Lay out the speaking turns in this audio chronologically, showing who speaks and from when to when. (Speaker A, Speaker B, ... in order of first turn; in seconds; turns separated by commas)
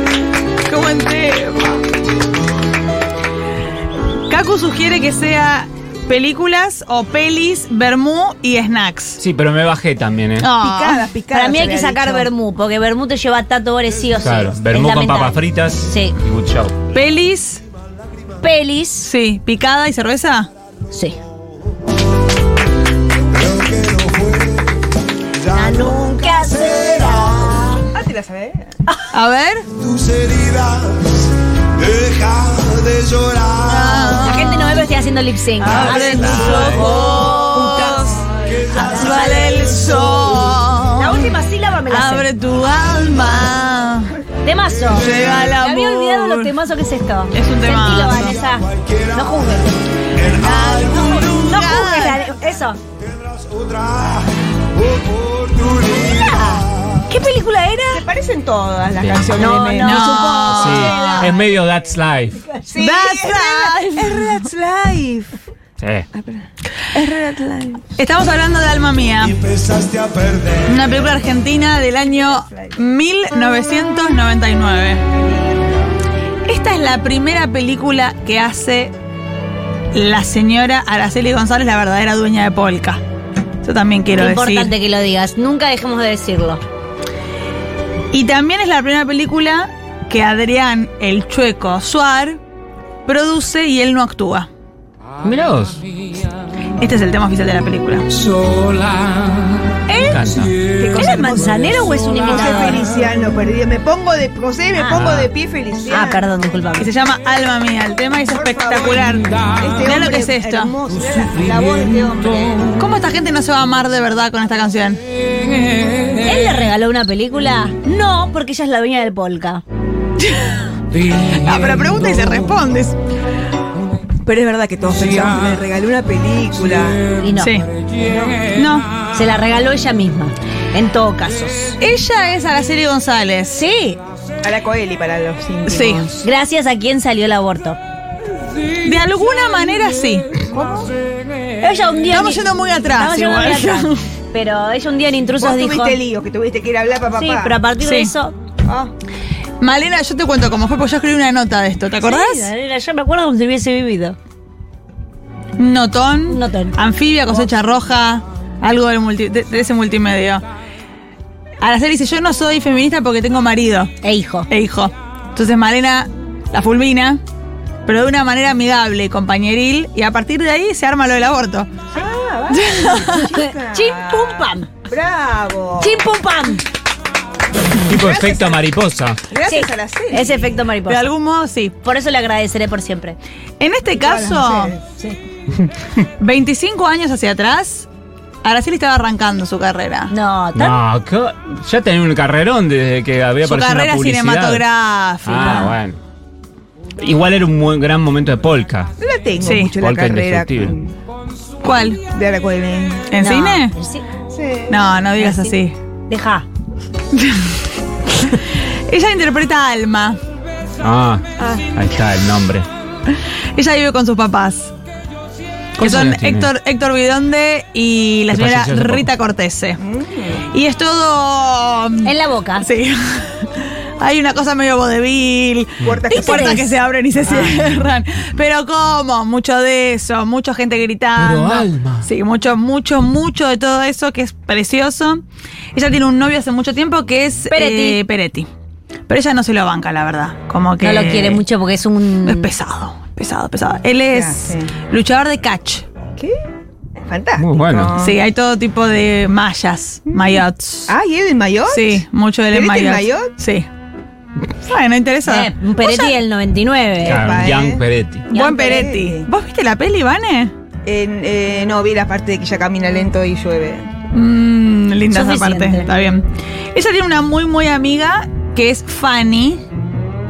Speaker A: 0.7-1.7, Speaker A: 4.3-9.2, Speaker B: 9.2-10.5, Speaker A: 10.4-11.1, Speaker C: 10.6-12.3, Speaker D: 11.3-16.2, Speaker B: 14.2-16.7, Speaker A: 16.9-17.6, Speaker D: 18.4-19.1, Speaker A: 19.0-20.5, Speaker D: 20.9-21.1, Speaker D: 25.4-27.8, Speaker C: 27.9-28.8, Speaker A: 29.1-29.7, Speaker E: 30.1-30.9, Speaker E: 32.0-33.3, Speaker A: 33.6-34.8, Speaker D: 34.1-39.6, Speaker A: 35.6-38.2, Speaker B: 35.8-36.8, Speaker C: 36.7-37.8, Speaker A: 38.7-41.3, Speaker D: 41.0-42.3, Speaker A: 41.9-44.1, Speaker D: 44.4-49.8, Speaker A: 45.0-46.5, Speaker A: 47.3-48.4, Speaker A: 50.2-52.2, Speaker D: 50.7-52.8, Speaker D: 55.6-58.1, Speaker C: 57.9-61.3, Speaker B: 59.0-59.3, Speaker D: 59.4-61.3, Speaker A: 59.8-61.3, Speaker B: 60.5-62.5, Speaker C: 62.6-65.4, Speaker A: 62.8-64.4, Speaker B: 65.8-66.1, Speaker C: 66.1-67.9, Speaker A: 68.0-69.4, Speaker A: 70.6-75.0, Speaker C: 72.1-72.8, Speaker A: 76.5-78.9, Speaker A: 79.9-83.0, Speaker A: 83.6-84.7, Speaker D: 84.2-86.6, Speaker A: 88.1-92.4, Speaker A: 93.0-94.5, Speaker B: 95.2-95.8, Speaker A: 96.8-98.1, Speaker B: 100.0-100.6, Speaker C: 100.7-106.3, Speaker D: 100.9-102.8, Speaker D: 104.8-105.0, Speaker B: 104.9-105.3, Speaker D: 105.9-106.9, Speaker A: 106.8-110.7, Speaker C: 108.3-109.0, Speaker C: 109.6-112.7, Speaker A: 112.8-115.0, Speaker D: 116.2-119.6, Speaker A: 120.2-120.6, Speaker A: 121.2-123.0, Speaker C: 124.2-127.0, Speaker D: 127.2-127.6, Speaker A: 127.4-127.6, Speaker C: 128.0-128.4, Speaker A: 128.5-128.9, Speaker D: 129.1-131.8, Speaker A: 131.8-133.6, Speaker D: 133.5-134.0, Speaker C: 134.4-136.2, Speaker A: 135.7-136.1, Speaker D: 136.2-137.8, Speaker A: 138.8-140.3, Speaker C: 140.5-140.9, Speaker D: 141.6-146.0, Speaker A: 142.1-143.9, Speaker C: 145.4-147.6, Speaker D: 147.2-148.3, Speaker A: 147.8-148.1, Speaker C: 148.6-148.9, Speaker A: 149.6-152.5, Speaker D: 152.0-154.2, Speaker A: 155.6-160.4, Speaker D: 156.3-156.8, Speaker A: 161.6-163.9, Speaker D: 164.0-164.5, Speaker A: 164.5-167.2, Speaker A: 167.8-171.7, Speaker C: 171.9-174.3, Speaker A: 172.5-173.3, Speaker D: 173.1-174.7, Speaker C: 174.9-176.0, Speaker D: 175.8-176.6, Speaker B: 177.9-179.2, Speaker C: 178.0-178.6, Speaker C: 179.3-180.5, Speaker D: 179.4-181.1, Speaker A: 180.9-181.7, Speaker D: 181.8-183.2, Speaker A: 183.6-184.8, Speaker C: 184.0-184.8, Speaker A: 186.2-187.9, Speaker A: 188.4-190.1, Speaker D: 190.1-190.8, Speaker B: 190.5-194.6, Speaker A: 193.4-195.8, Speaker B: 195.2-196.0, Speaker B: 197.0-198.9, Speaker C: 199.0-200.9, Speaker A: 199.4-199.7, Speaker B: 199.6-200.8, Speaker A: 201.6-202.0, Speaker C: 202.1-203.1, Speaker A: 203.1-203.7, Speaker D: 203.2-204.0, Speaker C: 204.3-204.8, Speaker A: 204.7-205.8, Speaker D: 205.2-205.6, Speaker D: 206.1-206.4, Speaker A: 207.1-210.2, Speaker B: 210.8-212.7, Speaker C: 211.4-211.6, Speaker A: 213.1-214.7, Speaker B: 215.8-216.5, Speaker A: 215.8-219.8, Speaker B: 218.3-219.1, Speaker C: 219.8-220.4, Speaker A: 220.5-235.2, Speaker D: 222.0-222.7, Speaker C: 225.8-226.5, Speaker D: 226.1-226.7, Speaker B: 231.2-232.0, Speaker A: 235.7-238.5, Speaker D: 237.5-238.0, Speaker A: 239.1-241.4, Speaker D: 240.8-242.5, Speaker A: 242.2-245.8, Speaker C: 244.1-244.8, Speaker C: 247.0-248.2, Speaker B: 247.4-247.9, Speaker A: 248.0-250.9, Speaker C: 250.1-253.3, Speaker A: 251.7-253.7, Speaker A: 254.6-256.2, Speaker D: 255.2-257.2, Speaker B: 257.0-258.2, Speaker C: 257.1-257.8, Speaker A: 258.3-260.5, Speaker C: 258.3-259.3, Speaker C: 260.8-263.9, Speaker A: 264.1-269.6, Speaker D: 265.1-265.9